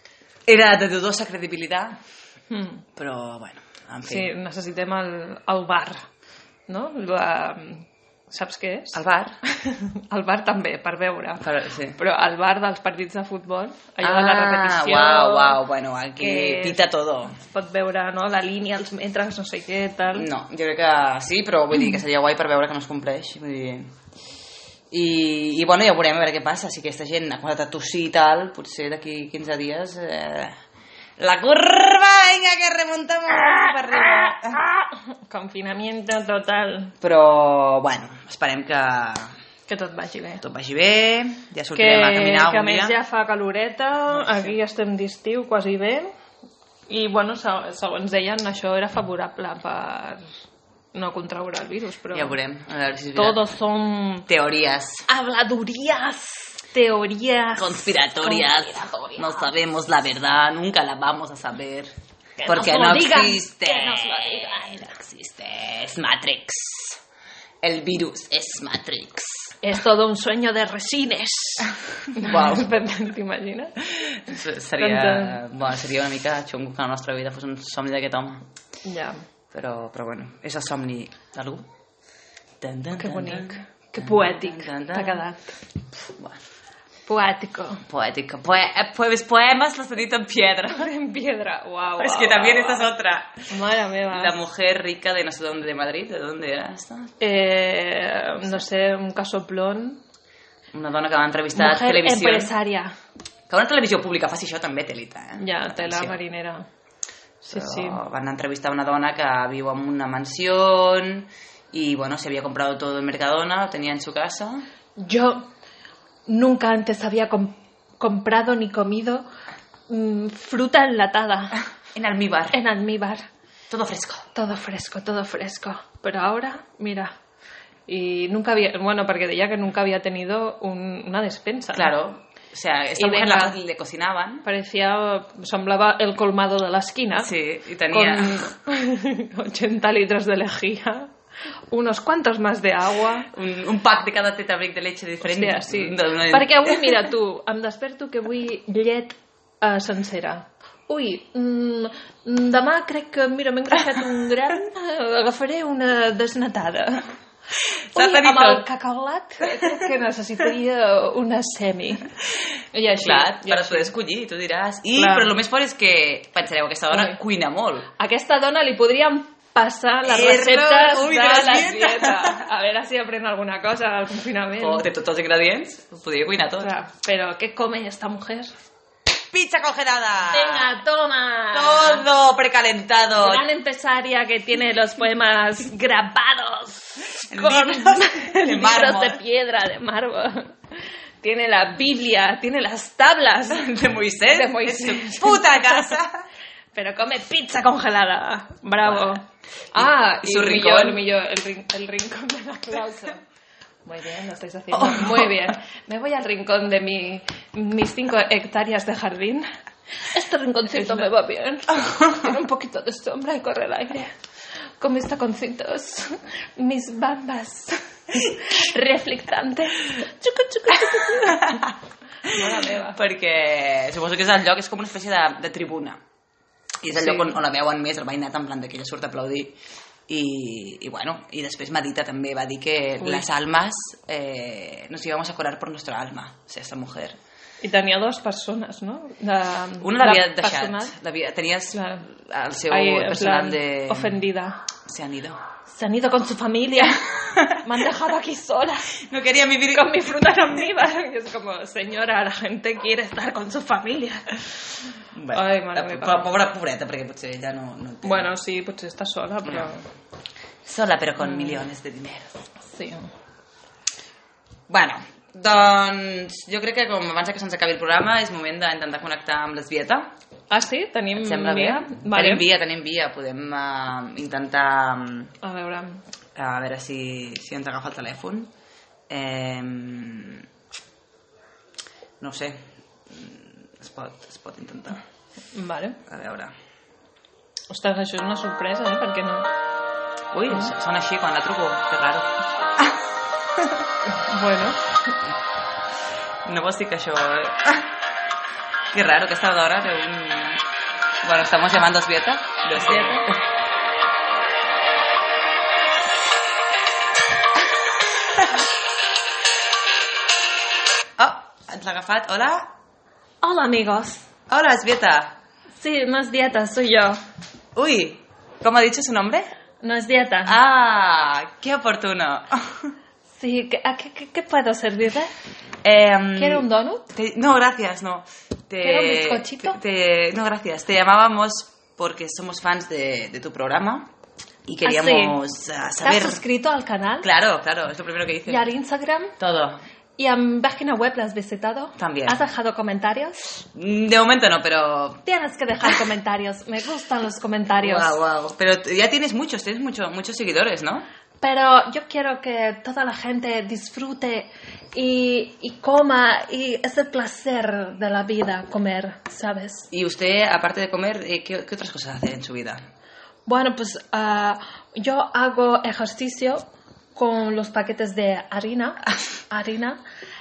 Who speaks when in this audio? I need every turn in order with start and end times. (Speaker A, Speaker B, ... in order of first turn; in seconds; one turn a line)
Speaker A: 0.5-2.0
Speaker B: 2.5-2.8
Speaker A: 3.0-4.3
Speaker B: 4.0-6.1
Speaker B: 6.7-15.6
Speaker A: 8.9-9.4
Speaker A: 11.4-12.0
Speaker A: 14.0-17.4
Speaker B: 16.2-16.8
Speaker B: 17.4-20.3
Speaker A: 20.1-23.9
Speaker A: 24.9-30.6
Speaker A: 31.2-34.6
Speaker B: 33.9-37.0
Speaker A: 37.0-39.3
Speaker B: 39.7-40.4
Speaker A: 40.4-43.0
Speaker B: 41.7-46.1
Speaker A: 44.1-44.5
Speaker B: 46.9-50.2
Speaker B: 50.9-52.4
Speaker A: 52.1-53.4
Speaker B: 53.1-54.3
Speaker A: 54.3-55.0
Speaker B: 55.1-59.5
Speaker A: 57.6-61.9
Speaker B: 62.4-64.9
Speaker A: 62.5-67.0
Speaker A: 67.6-69.5
Speaker B: 69.6-73.9
Speaker A: 72.2-72.7
Speaker A: 74.3-78.4
Speaker B: 74.8-75.4
Speaker B: 78.8-79.2
Speaker A: 79.5-81.7
Speaker A: 82.6-85.2
Speaker B: 83.0-85.5
Speaker A: 86.1-86.4
Speaker B: 87.1-87.8
Speaker A: 87.9-90.9
Speaker B: 90.7-92.9
Speaker A: 92.0-93.5
Speaker B: 93.5-94.4
Speaker A: 94.1-97.1
Speaker B: 97.2-100.0
Speaker A: 100.7-102.5
Speaker B: 101.5-103.0
Speaker A: 103.5-106.2
Speaker B: 105.4-106.7
Speaker A: 107.4-114.6
Speaker B: 107.5-108.0
Speaker B: 115.0-115.5
Speaker B: 116.3-119.2
Speaker B: 119.9-121.6
Speaker A: 122.0-122.6
Speaker B: 122.5-123.3
Speaker A: 123.7-124.3
Speaker B: 124.3-127.1
Speaker B: 127.9-131.9
Speaker A: 131.7-134.5
Speaker B: 133.0-133.6
Speaker B: 134.4-137.3
Speaker A: 137.2-138.5
Speaker B: 137.9-141.1
Speaker B: 141.7-143.3
Speaker A: 143.3-147.1
Speaker B: 145.2-157.1
Speaker A: 157.9-158.7
Speaker B: 157.9-162.1
Speaker B: 162.7-163.9
Speaker A: 163.0-167.9
Speaker B: 164.9-165.3
Speaker B: 166.9-167.2
Speaker B: 168.0-174.9
Speaker A: 170.0-172.4
Speaker A: 174.6-176.7
Speaker B: 176.6-178.5
Speaker A: 179.3-180.7
Speaker B: 180.3-182.1
Speaker A: 181.5-183.4
Speaker B: 183.2-190.5
Speaker A: 187.3-189.2
Speaker B: 191.2-193.7
Speaker A: 193.5-196.2
Speaker B: 194.3-195.9
Speaker B: 196.7-203.2
Speaker A: 198.8-199.1
Speaker A: 199.8-201.0
Speaker B: 203.8-209.5
Speaker A: 204.7-205.4
Speaker B: 210.1-214.1
Speaker B: 214.8-221.7
Speaker A: 221.0-221.7
Speaker B: 222.2-223.0
Speaker A: 222.2-226.0
Speaker A: 226.8-229.6
Speaker B: 226.9-227.4
Speaker A: 230.1-237.2
Speaker B: 233.0-233.3
Speaker B: 237.6-240.9
Speaker A: 239.8-244.2
Speaker B: 241.7-242.1
Speaker B: 242.7-244.6
Speaker A: 244.9-245.4
Speaker B: 245.7-249.0
Speaker A: 247.1-247.7
Speaker A: 249.0-250.8
Speaker B: 249.7-254.7
Speaker A: 255.2-258.3
Speaker B: 255.3-256.3
Speaker B: 258.0-259.8
Speaker A: 259.4-259.8
Speaker A: 260.7-262.4
Speaker B: 261.2-261.6
Speaker B: 262.7-263.1
Speaker A: 264.7-270.1
Speaker B: 270.5-272.5
Speaker A: 271.1-275.3
Speaker B: 275.4-276.0
Speaker A: 276.4-278.5
Speaker A: 279.1-280.5
Speaker A: 282.2-282.6
Speaker A: 283.1-285.0
Speaker B: 285.5-286.0
Speaker A: 286.1-286.5
Speaker B: 287.7-289.5
Speaker A: 290.3-293.0
Speaker B: 294.1-294.9
Speaker A: 296.5-297.9
Speaker A: 298.9-300.6
Speaker A: 301.2-303.4
Speaker B: 302.7-303.3
Speaker A: 311.2-312.7
Speaker B: 313.4-314.3
Speaker A: 314.5-315.4
Speaker B: 315.8-317.2
Speaker A: 317.8-319.5
Speaker B: 319.8-320.6
Speaker A: 320.4-322.9
Speaker B: 323.3-325.3
Speaker A: 325.8-334.1
Speaker B: 326.4-327.1
Speaker B: 328.8-329.8
Speaker A: 334.7-336.4
Speaker B: 334.8-335.4
Speaker B: 336.0-337.3
Speaker A: 337.2-338.6
Speaker B: 338.5-339.4
Speaker A: 339.4-339.8
Speaker B: 340.2-343.6
Speaker A: 342.0-342.4
Speaker A: 343.8-345.2
Speaker B: 345.2-348.2
Speaker A: 347.8-351.1
Speaker B: 351.4-359.9
Speaker A: 359.9-362.8
Speaker B: 363.5-366.6
Speaker B: 367.1-370.0